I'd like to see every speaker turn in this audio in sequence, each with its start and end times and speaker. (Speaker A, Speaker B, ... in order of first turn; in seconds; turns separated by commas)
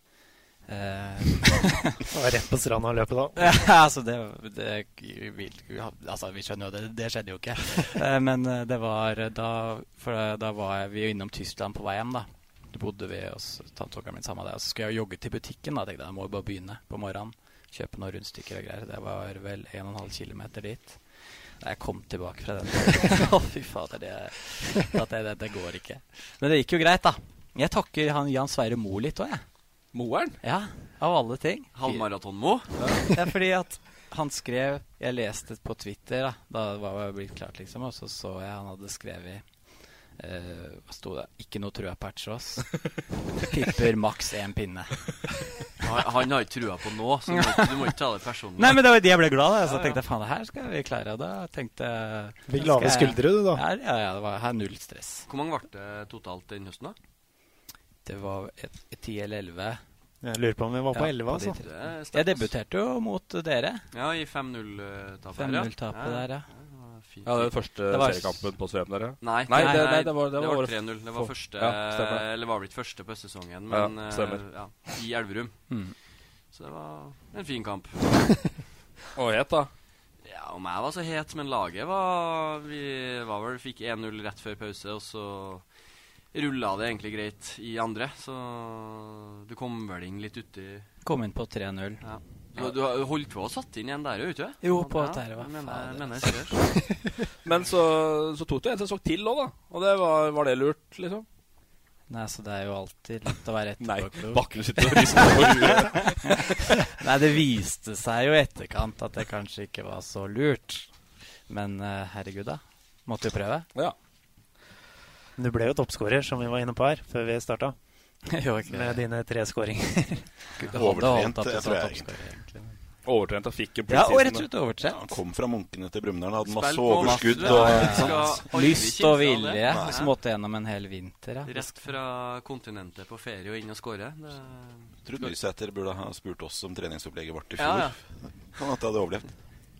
Speaker A: 0.7-2.0, Speaker B: 2.1-3.6, Speaker A: 3.4-29.4, Speaker C: 29.9-30.4, Speaker A: 30.4-32.0, Speaker D: 31.8-32.7, Speaker A: 33.1-39.5, Speaker A: 40.2-42.8, Speaker A: 43.5-45.3, Speaker D: 45.8-48.8, Speaker A: 47.3-47.8, Speaker A: 48.6-55.3, Speaker D: 49.6-50.0, Speaker B: 52.5-53.6, Speaker D: 55.3-57.0, Speaker A: 58.0-59.8, Speaker B: 60.2-61.6, Speaker A: 60.9-63.8, Speaker D: 61.5-62.5, Speaker D: 63.9-67.5, Speaker A: 65.3-66.5, Speaker C: 67.2-72.3, Speaker A: 67.9-68.5, Speaker D: 69.2-75.6, Speaker A: 69.6-69.9, Speaker C: 73.7-74.8, Speaker A: 75.7-75.9, Speaker D: 76.5-78.2, Speaker C: 79.2-79.7, Speaker D: 80.2-85.7, Speaker D: 86.3-90.9, Speaker A: 91.0-92.0, Speaker D: 92.0-96.6, Speaker A: 94.6-96.9, Speaker C: 97.4-101.2, Speaker A: 102.1-106.0, Speaker C: 103.8-106.8, Speaker A: 106.8-110.9, Speaker A: 111.5-113.7, Speaker B: 115.4-117.8, Speaker A: 118.3-119.0, Speaker B: 118.7-120.5, Speaker E: 120.6-122.1, Speaker A: 120.6-122.8, Speaker C: 123.0-124.5, Speaker A: 123.9-125.1, Speaker E: 124.8-128.4, Speaker D: 126.4-130.1, Speaker A: 127.0-131.8, Speaker E: 129.6-130.0, Speaker D: 131.5-135.3, Speaker E: 135.1-139.3, Speaker D: 137.6-137.9